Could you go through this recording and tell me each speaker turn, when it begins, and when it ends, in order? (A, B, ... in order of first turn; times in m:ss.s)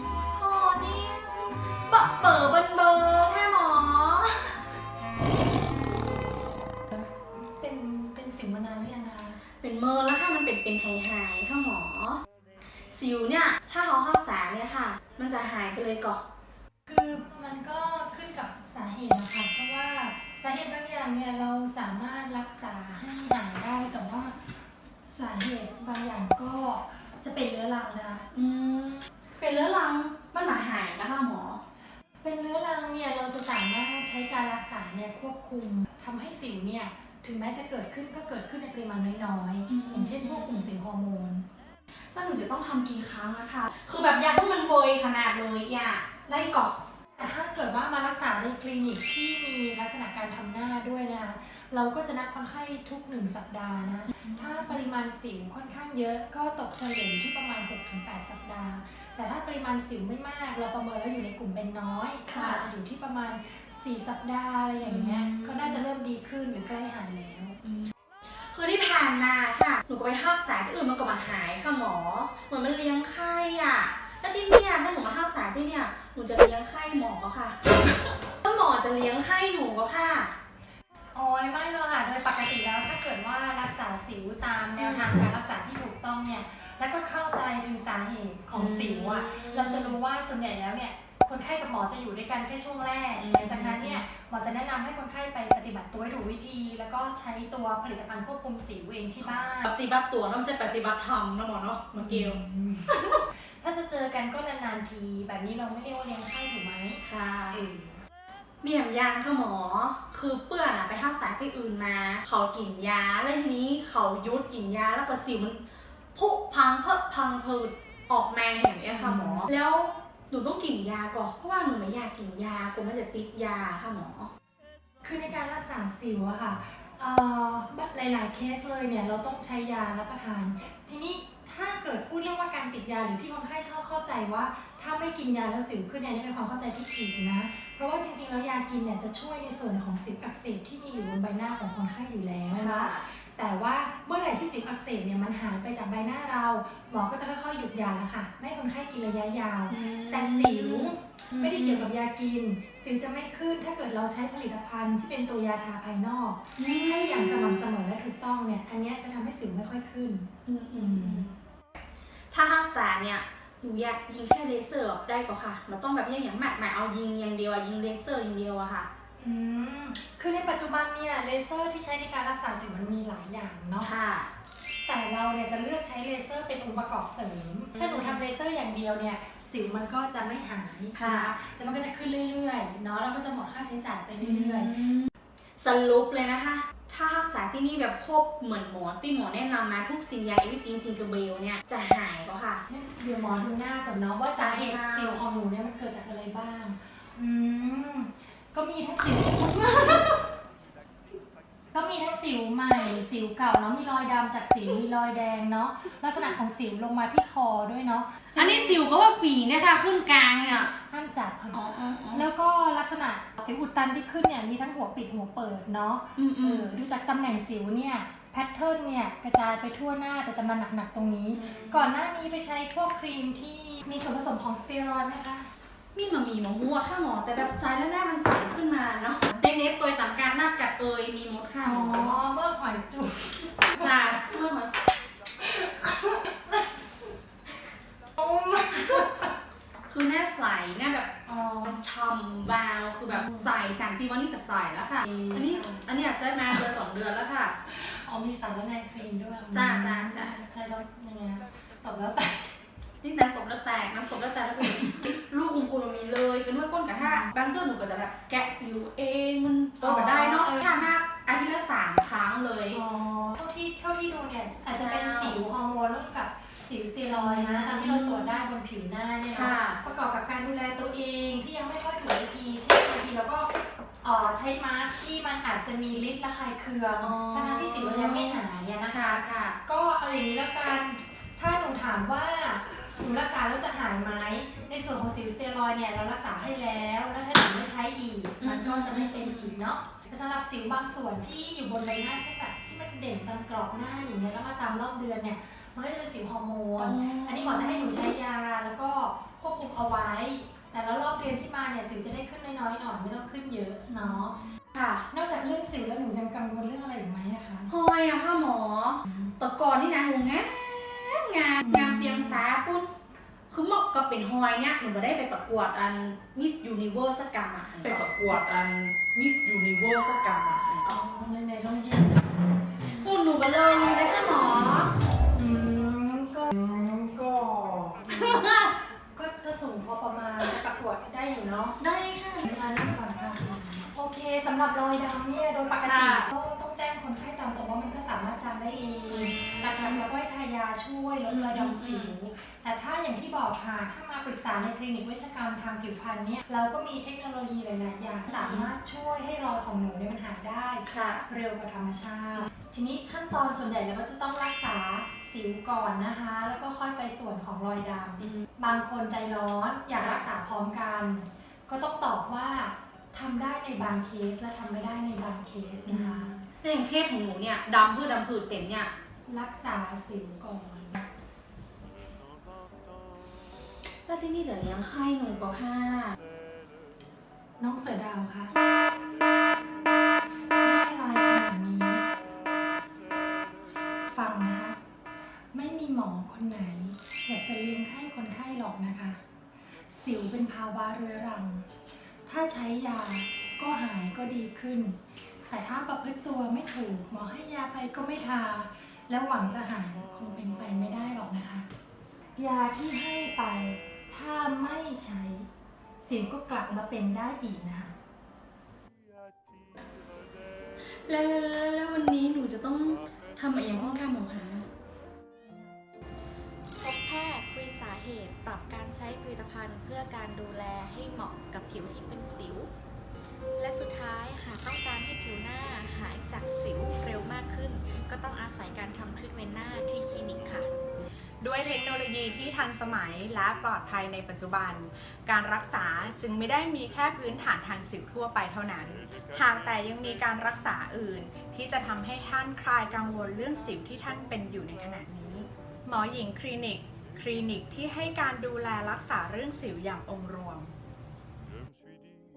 0:00.3-0:04.6 A
0:07.2-0:09.4 B
0:09.6-0:12.2 A
0:12.9-0:16.2 A
0:16.9-0:28.3 B
0:28.3-0:31.6 A
0:32.2-0:41.4 B
0:39.7-0:40.7 A
0:42.1-0:46.8 A
0:47.2-1:07.6 B
0:54.1-0:54.8 A
1:02.2-1:02.6 A
1:04.8-1:05.8 A
1:07.6-1:17.7 A
1:18.4-1:20.3 A
1:21.1-1:39.7 B
1:24.8-1:25.1 A
1:28.5-1:30.0 A
1:33.2-1:34.0 A
1:39.6-1:43.2 A
1:42.0-1:48.0 B
1:47.0-1:47.6 A
1:48.6-1:55.6 A
1:56.1-2:04.3 A
1:58.9-1:59.5 B
2:05.0-2:41.2 B
2:22.5-2:23.0 A
2:29.7-2:31.9 A
2:36.6-2:37.7 A
2:40.4-2:41.3 A
2:42.3-2:48.9 A
2:49.2-2:53.9 B
2:53.8-2:54.3 A
2:54.8-3:04.9 B
2:57.8-2:58.2 A
3:00.9-3:01.3 A
3:04.2-3:12.6 A
3:12.7-3:20.1 B
3:14.4-3:15.2 A
3:19.7-3:20.1 A
3:21.7-3:28.8 B
3:28.3-3:30.7 A
3:30.5-3:45.5 B
3:31.5-3:32.3 A
3:36.2-3:36.7 A
3:41.3-3:41.9 A
3:45.9-3:52.2 A
3:51.6-3:53.9 B
3:53.8-3:54.7 A
3:55.4-3:56.7 B
3:58.2-3:59.3 B
3:59.9-4:01.1 A
4:01.2-4:01.8 B
4:01.6-4:07.6 A
4:03.1-4:03.5 B
4:05.0-4:05.8 B
4:07.7-4:12.6 B
4:09.5-4:10.4 A
4:13.0-4:22.8 A
4:17.0-4:17.3 B
4:19.8-4:20.9 B
4:22.7-5:04.4 B
4:24.7-4:25.5 A
4:27.1-4:28.3 A
4:29.3-4:29.8 A
4:37.0-4:39.6 A
4:48.4-4:49.5 A
4:56.8-4:58.1 A
5:03.9-5:05.0 A
5:05.1-5:07.7 B
5:07.7-5:12.9 A
5:09.0-5:09.3 B
5:11.6-5:12.4 B
5:13.5-5:21.0 A
5:17.8-5:18.2 B
5:20.9-5:23.1 B
5:22.9-5:25.0 A
5:25.3-5:31.8 B
5:28.1-5:28.7 A
5:31.8-5:32.5 A
5:32.4-6:06.4 B
5:35.8-5:36.3 A
5:39.1-5:40.0 A
5:41.3-5:42.1 A
5:48.3-5:48.7 A
5:50.8-5:51.2 A
6:00.0-6:00.2 A
6:05.8-6:08.9 A
6:09.3-6:11.0 B
6:14.0-6:16.2 A
6:17.6-6:18.5 B
6:20.6-6:22.0 B
6:24.1-6:24.8 B
6:25.5-6:29.2 B
6:29.9-6:31.7 B
6:32.3-6:41.6 B
6:42.4-6:45.5 B
6:46.0-6:47.9 B
6:51.0-6:54.7 A
6:56.8-7:02.7 C
7:03.6-7:10.6 C
7:11.4-7:30.8 D